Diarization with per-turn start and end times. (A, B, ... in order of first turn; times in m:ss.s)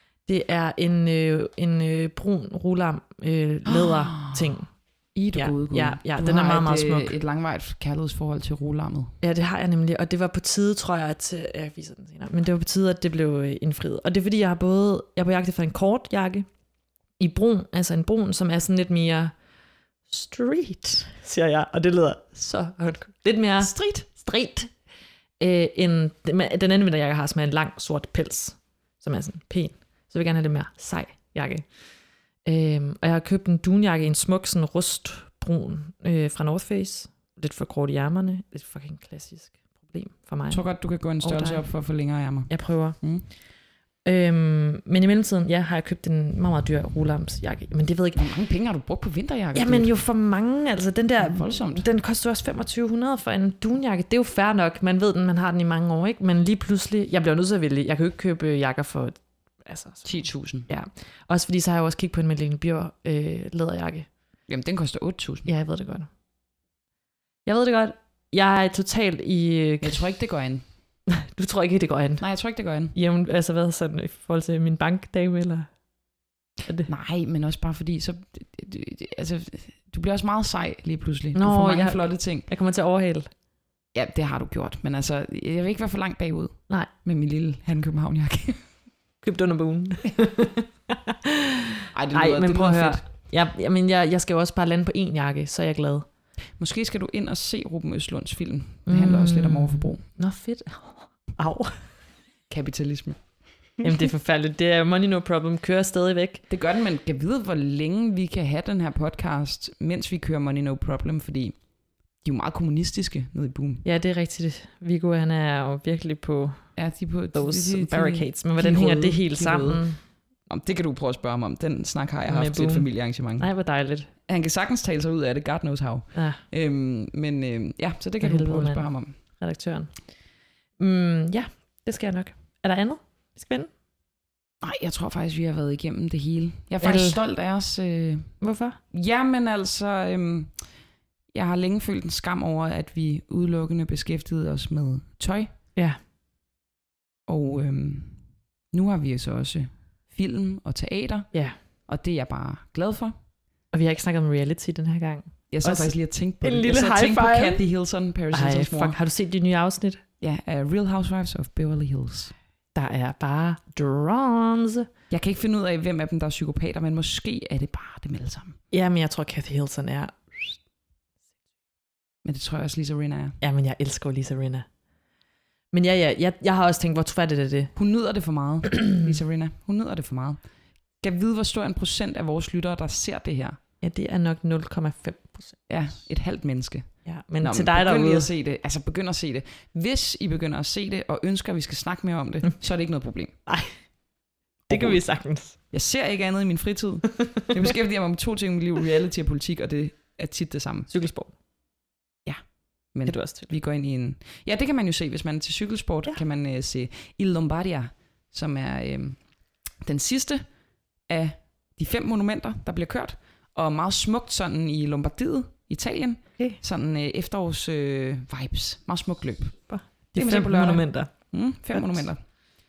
0:00.2-0:04.7 A
0:03.6-0:04.6 B
0:05.1-0:09.1 B
0:05.3-0:07.1 A
0:09.2-0:16.4 A
0:17.2-0:19.3 A
0:20.1-0:24.7 A
0:23.6-0:24.1 B
0:25.4-0:31.6 A
0:32.4-0:40.6 A
0:40.5-0:43.2 B
0:41.2-0:41.7 A
0:42.5-0:43.0 A
0:44.0-0:48.2 A
0:48.2-0:49.9 B
0:49.5-1:00.1 A
0:51.2-0:51.8 B
1:00.0-1:00.7 B
1:00.7-1:04.1 A
1:04.5-1:05.5 B
1:05.5-1:06.1 A
1:07.4-1:10.2 A
1:09.8-1:10.6 B
1:11.1-1:12.2 A
1:12.2-1:12.9 B
1:12.9-1:15.7 A
1:16.9-1:22.5 B
1:21.3-1:23.3 A
1:23.9-1:28.6 B
1:29.2-1:36.0 A
1:31.9-1:33.0 B
1:36.6-1:40.0 B
1:38.9-1:41.8 A
1:42.5-1:43.2 B
1:43.8-1:46.4 A
1:46.5-1:51.6 B
1:52.2-1:53.8 B
1:53.8-1:56.7 A
1:56.8-1:59.8 B
1:57.3-2:00.0 A
2:00.4-2:03.5 B
2:02.3-2:04.1 A
2:04.3-2:09.1 B
2:06.1-2:06.4 A
2:08.2-2:10.0 A
2:10.8-2:13.7 A
2:14.6-2:18.3 B
2:16.8-2:17.2 A
2:18.4-2:18.8 A
2:18.9-2:20.5 B
2:21.3-2:25.5 B
2:27.3-2:28.2 B
2:28.7-2:31.3 B
2:31.9-2:33.1 B
2:33.7-2:37.6 A
2:35.5-2:39.0 B
2:38.3-2:40.0 A
2:40.2-2:42.3 B
2:42.7-2:44.9 A
2:45.1-2:48.6 B
2:48.7-2:50.6 A
2:52.2-2:53.4 B
2:53.4-2:54.6 A
2:55.7-2:57.7 A
2:57.8-3:00.4 B
3:01.0-3:03.6 B
3:03.8-3:05.6 A
3:05.7-3:06.9 B
3:07.0-3:08.3 A
3:07.4-3:13.3 B
3:13.5-3:13.8 A
3:14.7-3:15.6 A
3:14.7-3:15.0 B
3:15.7-3:20.9 B
3:20.9-3:21.3 A
3:22.9-3:29.2 B
3:23.0-3:23.5 A
3:29.8-3:30.4 B
3:31.1-3:39.6 B
3:39.7-3:41.1 A
3:40.1-3:42.2 B
3:41.7-3:42.0 A